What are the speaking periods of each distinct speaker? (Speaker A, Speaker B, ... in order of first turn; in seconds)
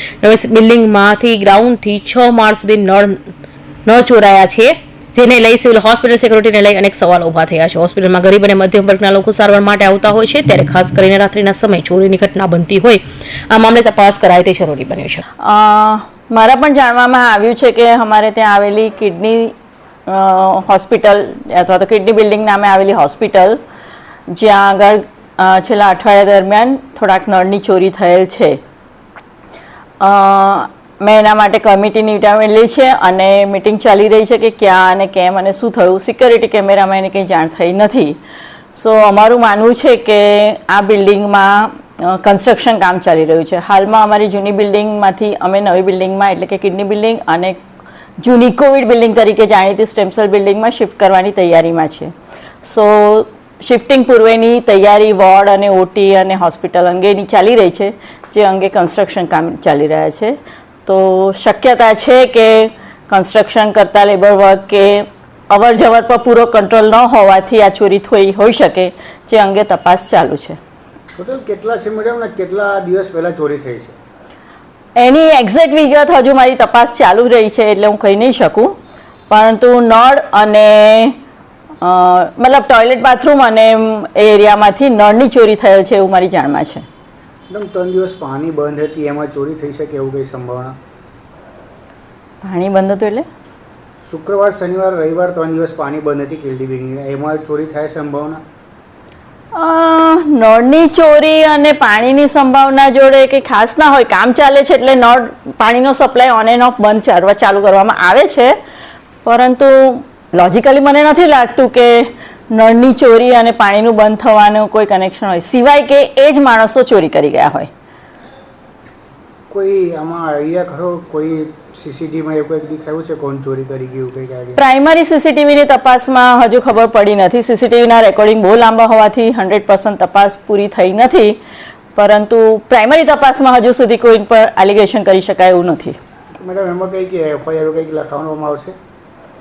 Speaker A: 0.2-3.2, 3.9-15.2
Speaker B: 15.4-19.5, 20.1-23.6, 24.3-28.6, 30.0-38.2, 38.7-47.6, 48.2-52.1, 52.6-70.6, 75.0-78.8, 79.3-81.2, 81.8-86.8, 92.4-93.3, 99.5-108.5, 109.2-117.7, 124.6-131.4, 131.9-136.0
Speaker C: 71.2-74.0, 87.5-90.8, 94.1-98.4, 119.5-124.6, 136.4-138.7